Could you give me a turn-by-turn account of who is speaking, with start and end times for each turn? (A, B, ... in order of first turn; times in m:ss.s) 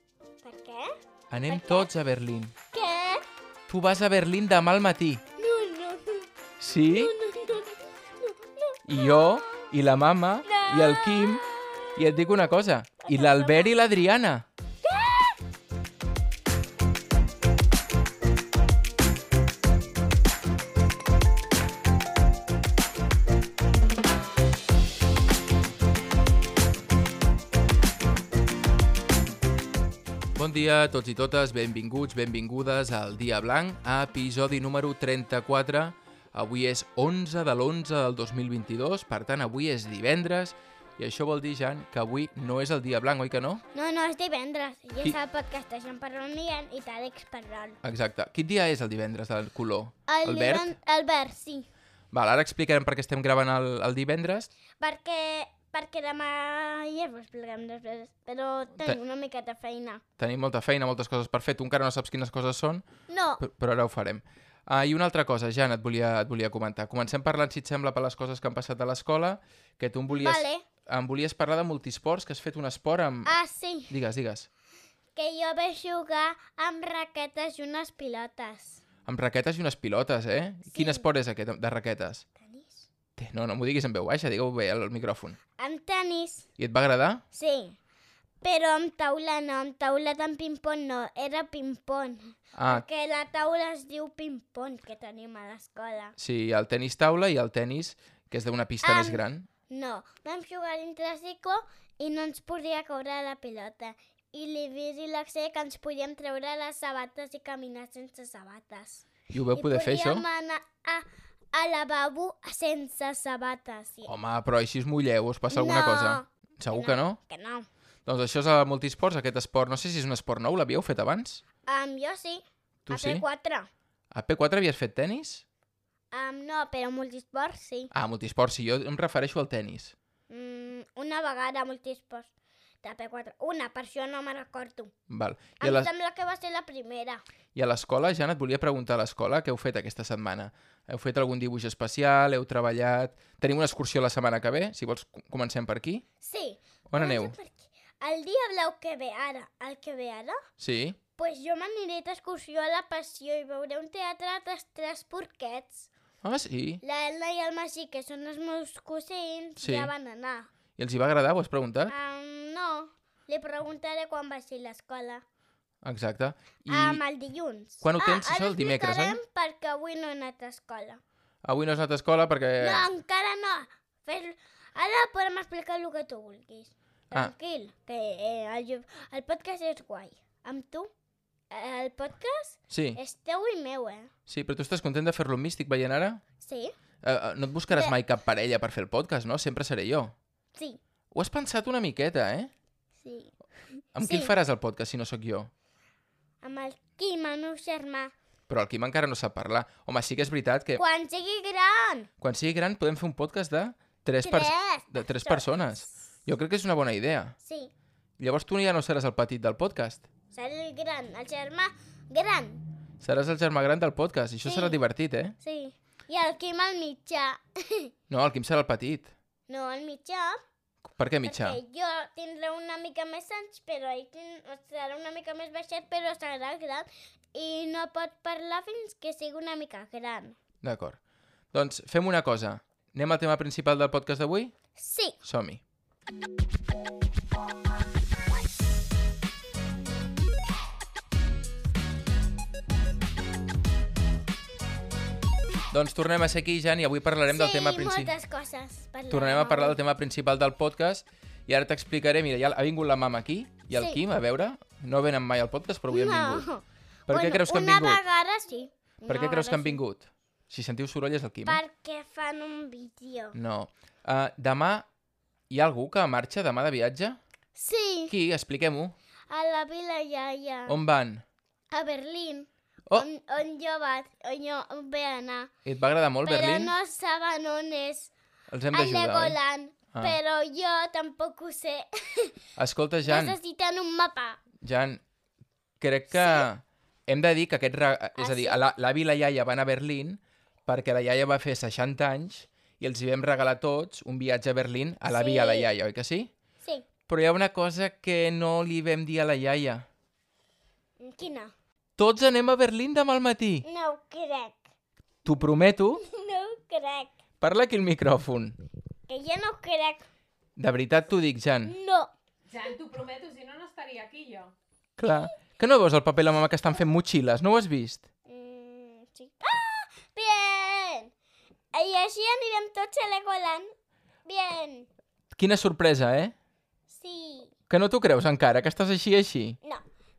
0:00.4-0:00.9 A
0:01.3-0:02.5 B
0:01.4-0:01.9 A
0:02.7-0:03.2 A
0:03.7-0:05.2 B
0:05.4-0:06.3 A
0:06.6-0:07.1 B
0:06.8-0:09.7 A
0:08.9-0:14.4 B
0:10.4-0:12.0 A
0:13.0-0:13.8 A
0:14.8-0:15.4 A
0:30.3-0:43.6 B
0:43.7-0:47.8 A
0:47.8-0:50.7 B
0:50.1-0:51.7 A
0:52.1-0:54.5 B
0:54.8-1:00.0 A
1:00.2-1:02.8 B
1:03.1-1:03.4 A
1:03.4-1:13.4 B
1:10.1-1:10.6 A
1:13.2-1:13.9 A
1:13.9-1:14.5 B
1:15.2-1:18.8 A
1:19.0-1:22.2 B
1:20.7-1:21.0 A
1:22.4-1:22.9 A
1:23.2-1:25.4 B
1:25.6-1:26.5 A
1:26.6-1:27.2 B
1:27.3-1:27.8 A
1:28.4-1:36.2 A
1:32.6-1:32.8 B
1:36.2-1:39.5 B
1:38.8-1:54.1 A
1:49.3-1:50.2 B
1:54.0-1:57.2 B
1:55.5-1:57.7 A
1:58.0-2:01.4 B
2:01.6-2:03.7 A
2:02.9-2:03.2 B
2:04.1-2:05.4 B
2:06.1-2:07.9 A
2:07.9-2:09.9 B
2:10.3-2:12.3 A
2:12.8-2:14.9 A
2:15.1-2:15.9 B
2:15.6-2:17.2 A
2:17.5-2:26.0 B
2:26.2-2:30.4 A
2:26.9-2:27.3 B
2:30.6-2:31.0 B
2:31.2-2:35.9 A
2:36.2-2:36.8 B
2:36.8-2:40.5 A
2:39.6-2:39.9 B
2:40.8-2:41.9 B
2:41.9-2:45.2 A
2:45.8-2:47.0 B
2:46.7-2:51.0 A
2:47.8-2:49.2 B
2:51.4-2:52.9 B
2:52.6-3:00.9 A
3:01.5-3:04.1 A
3:02.7-3:03.0 B
3:04.3-3:06.2 B
3:06.4-3:06.7 A
3:07.0-3:10.1 B
3:11.1-3:12.5 B
3:13.0-3:13.3 A
3:13.9-3:15.5 B
3:14.0-3:14.3 A
3:16.4-3:18.1 A
3:18.5-3:20.8 B
3:20.8-3:22.1 A
3:22.2-3:27.3 B
3:24.2-3:25.6 A
3:27.4-3:27.7 A
3:28.2-3:30.1 B
3:30.3-3:32.6 A
3:33.0-3:35.3 B
3:34.4-3:34.8 A
3:35.4-3:37.9 A
3:38.1-3:39.1 B
3:39.5-3:40.4 A
3:40.9-3:41.6 B
3:41.2-3:50.4 A
3:50.6-3:51.0 B
3:51.5-3:54.5 B
3:54.8-3:55.2 A
3:55.2-3:55.6 B
4:05.7-4:08.1 B
4:07.2-4:09.8 A
4:09.1-4:16.4 B
4:13.7-4:14.0 A
4:15.9-4:19.8 A
4:17.1-4:18.0 B
4:19.1-4:21.6 B
4:21.4-4:23.4 A
4:23.3-4:24.8 B
4:25.5-4:27.2 B
4:27.5-4:28.1 A
4:28.1-4:28.9 B
4:29.3-4:30.8 A
4:30.7-4:31.2 B
4:31.7-4:35.5 A
4:35.6-4:36.7 B
4:36.2-4:38.1 A
4:38.5-4:39.4 B
4:38.7-4:42.3 A
4:39.9-4:40.2 B
4:42.6-4:43.4 B
4:43.0-4:44.4 A
4:44.6-4:45.0 B
4:45.8-4:56.3 B
4:46.1-4:46.5 A
4:48.2-4:48.6 A
4:55.0-4:55.7 A
4:56.6-4:56.9 A
4:57.1-4:59.9 B
5:01.0-5:01.5 A
5:02.0-5:03.6 B
5:03.6-5:04.6 A
5:05.2-5:06.0 B
5:06.0-5:07.1 A
5:07.4-5:08.6 B
5:09.1-5:10.0 A
5:10.6-5:11.7 B
5:11.6-5:12.1 A
5:12.5-5:14.5 C
5:15.0-5:18.0 B
5:18.3-5:21.1 A
5:21.7-5:23.7 A
5:24.2-5:24.9 A
5:25.3-5:26.3 B
5:26.9-5:27.5 A
5:27.7-5:29.6 B